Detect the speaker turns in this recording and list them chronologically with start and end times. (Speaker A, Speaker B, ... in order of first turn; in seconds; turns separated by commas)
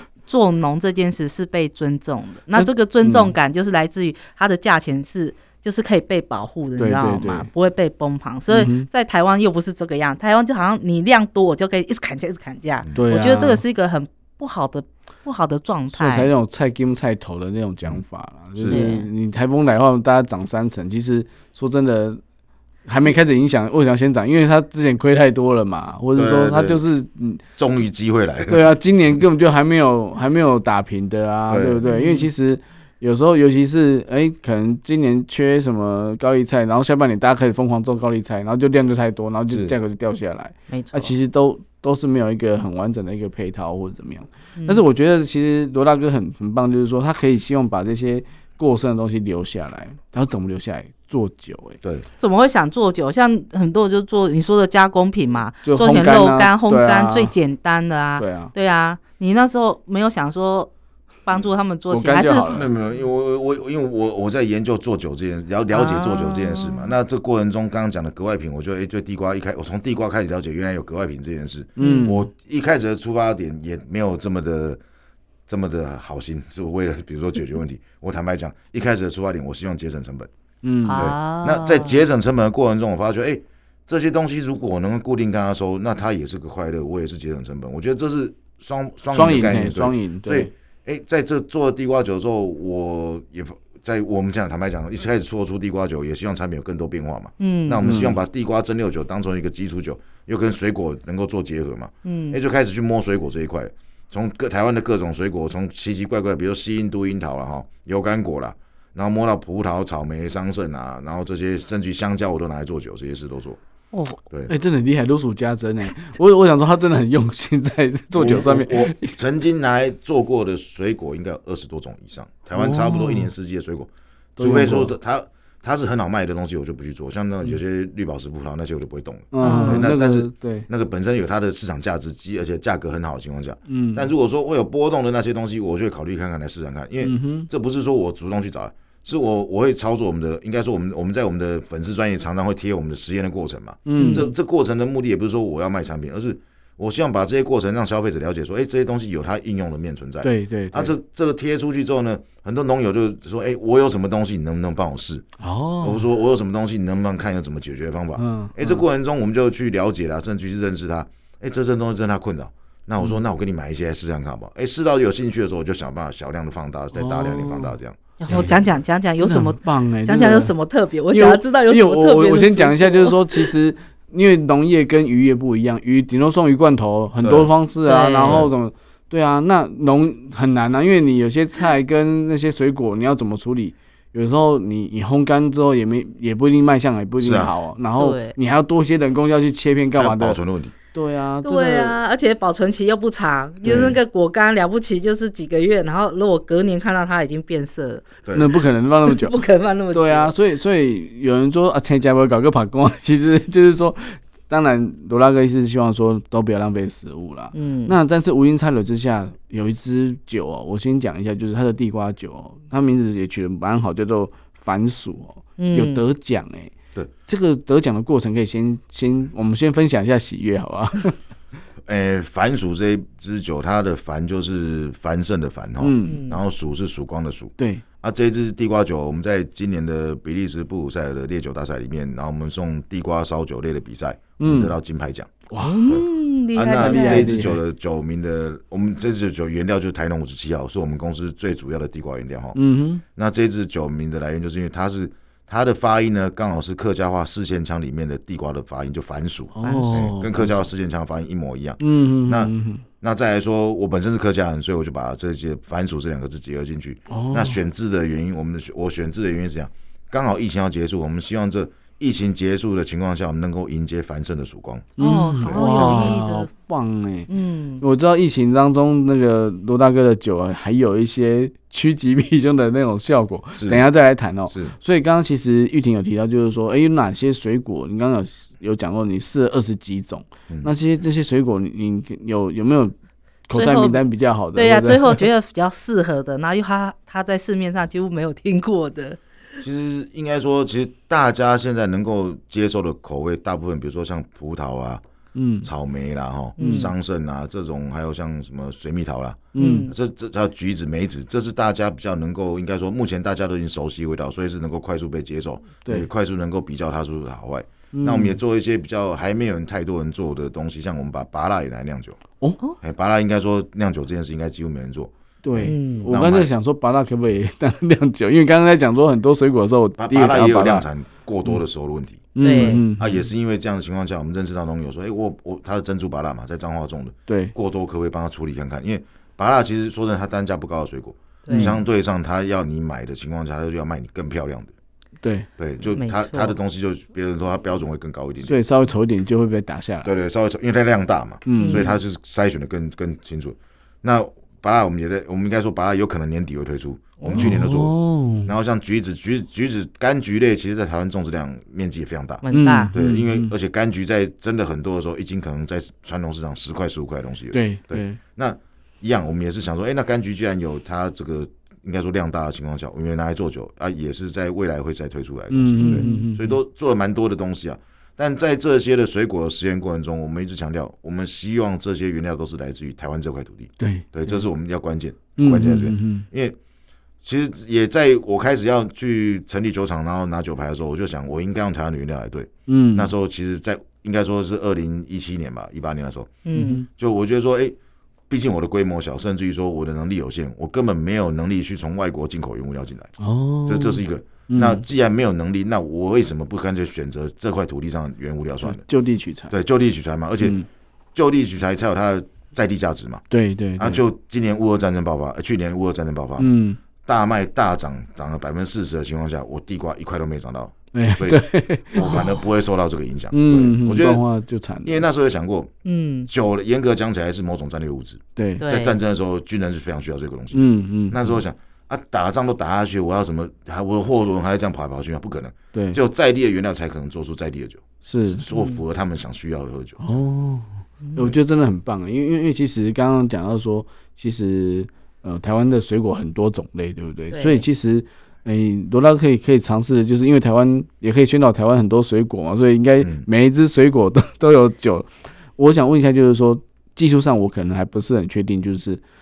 Speaker A: 0.3-16.3, Speaker B: 2.6-3.3, Speaker B: 6.8-7.5, Speaker B: 8.5-8.9, Speaker B: 12.9-13.6, Speaker B: 15.9-22.2, Speaker C: 18.6-18.8, Speaker A: 18.7-19.1, Speaker B: 22.9-27.4, Speaker C: 26.1-26.8, Speaker C: 27.6-28.8, Speaker B: 28.5-51.8, Speaker C: 31.5-31.8, Speaker A: 31.9-32.3, Speaker C: 39.5-39.8, Speaker A: 40.7-41.1, Speaker A: 44.6-44.8, Speaker A: 52.2-60.7, Speaker B: 55.6-57.3, Speaker B: 58.2-58.5, Speaker A: 61.3-62.6, Speaker B: 61.9-62.7, Speaker C: 62.5-74.8, Speaker A: 65.7-66.9, Speaker B: 71.8-72.2, Speaker A: 71.8-72.1, Speaker C: 75.5-80.3, Speaker B: 80.6-81.0, Speaker A: 80.8-82.0, Speaker C: 81.0-113.6, Speaker B: 89.1-90.5, Speaker A: 97.4-97.8, Speaker B: 97.8-98.2, Speaker A: 102.0-102.4, Speaker A: 113.9-114.2, Speaker B: 114.5-119.1, Speaker C: 118.1-155.3, Speaker B: 122.5-123.3, Speaker B: 124.4-124.9, Speaker B: 129.3-130.7, Speaker A: 129.4-129.8, Speaker B: 133.7-134.1, Speaker B: 137.0-137.5, Speaker B: 143.9-144.2, Speaker A: 144.0-144.3, Speaker B: 150.2-150.9, Speaker B: 155.4-156.1, Speaker C: 155.8-168.5, Speaker B: 158.2-158.8, Speaker B: 166.9-167.8, Speaker A: 168.2-173.5, Speaker B: 168.3-168.7, Speaker B: 169.2-170.5, Speaker B: 171.1-190.4, Speaker C: 177.2-177.5, Speaker A: 177.9-178.4, Speaker C: 178.2-178.5, Speaker C: 187.2-187.5, Speaker A: 188.0-188.3, Speaker C: 190.0-190.7, Speaker B: 190.9-191.9, Speaker A: 191.4-198.2, Speaker C: 193.7-194.0, Speaker B: 198.3-199.4, Speaker A: 199.1-200.3, Speaker B: 199.9-216.7, Speaker A: 207.5-207.9, Speaker A: 215.6-216.0, Speaker B: 217.3-221.2, Speaker C: 221.9-242.6, Speaker B: 225.8-226.2, Speaker A: 226.1-226.4, Speaker B: 227.6-227.8, Speaker B: 234.4-234.7, Speaker B: 235.5-236.0, Speaker A: 235.6-237.4, Speaker B: 236.8-237.6, Speaker B: 242.6-243.0, Speaker C: 243.2-266.1, Speaker B: 249.5-250.5, Speaker A: 249.6-250.0, Speaker B: 251.8-252.8, Speaker B: 257.1-257.6, Speaker B: 265.0-267.3, Speaker A: 265.0-266.5, Speaker A: 267.3-267.8, Speaker B: 267.8-283.0, Speaker C: 273.6-273.8, Speaker B: 283.5-285.2, Speaker A: 283.5-289.2, Speaker C: 289.6-295.0, Speaker B: 295.4-295.7, Speaker C: 295.6-312.2, Speaker A: 296.6-296.9, Speaker B: 296.6-296.9, Speaker B: 299.5-299.9, Speaker A: 299.6-299.9, Speaker B: 307.9-308.4, Speaker C: 312.8-316.5, Speaker B: 315.4-320.9, Speaker A: 315.6-316.1, Speaker C: 320.0-334.7, Speaker B: 322.4-323.2, Speaker A: 322.4-322.8, Speaker B: 327.3-327.5, Speaker A: 331.5-331.7, Speaker B: 331.5-331.8, Speaker B: 335.2-335.5, Speaker C: 335.6-338.6, Speaker A: 335.9-336.5, Speaker B: 338.4-340.1, Speaker C: 340.0-347.9, Speaker B: 341.5-341.8, Speaker A: 341.6-342.0, Speaker A: 347.2-347.5, Speaker B: 347.3-348.5, Speaker C: 348.4-376.6, Speaker A: 352.4-352.9, Speaker B: 352.5-353.5, Speaker B: 357.5-358.2, Speaker B: 365.5-366.6, Speaker A: 365.8-366.3, Speaker B: 373.8-374.4, Speaker B: 375.4-376.2, Speaker C: 377.2-387.8, Speaker B: 382.7-383.1, Speaker A: 386.4-386.8, Speaker B: 386.6-386.9, Speaker C: 388.3-393.1, Speaker B: 393.2-394.8, Speaker C: 393.7-398.8, Speaker B: 398.6-399.5, Speaker C: 399.5-400.6, Speaker B: 400.4-400.7, Speaker C: 401.1-403.2, Speaker B: 403.3-404.0, Speaker C: 403.8-406.5, Speaker B: 406.4-406.8, Speaker C: 407.1-414.2, Speaker B: 410.9-412.3, Speaker A: 412.0-412.3, Speaker B: 413.3-415.0, Speaker C: 414.9-415.7, Speaker A: 415.9-416.3, Speaker C: 416.3-430.0, Speaker B: 418.4-418.6, Speaker A: 418.6-419.0, Speaker B: 420.5-421.4, Speaker B: 428.0-428.4, Speaker A: 428.5-428.8, Speaker B: 430.0-449.0, Speaker A: 437.3-437.6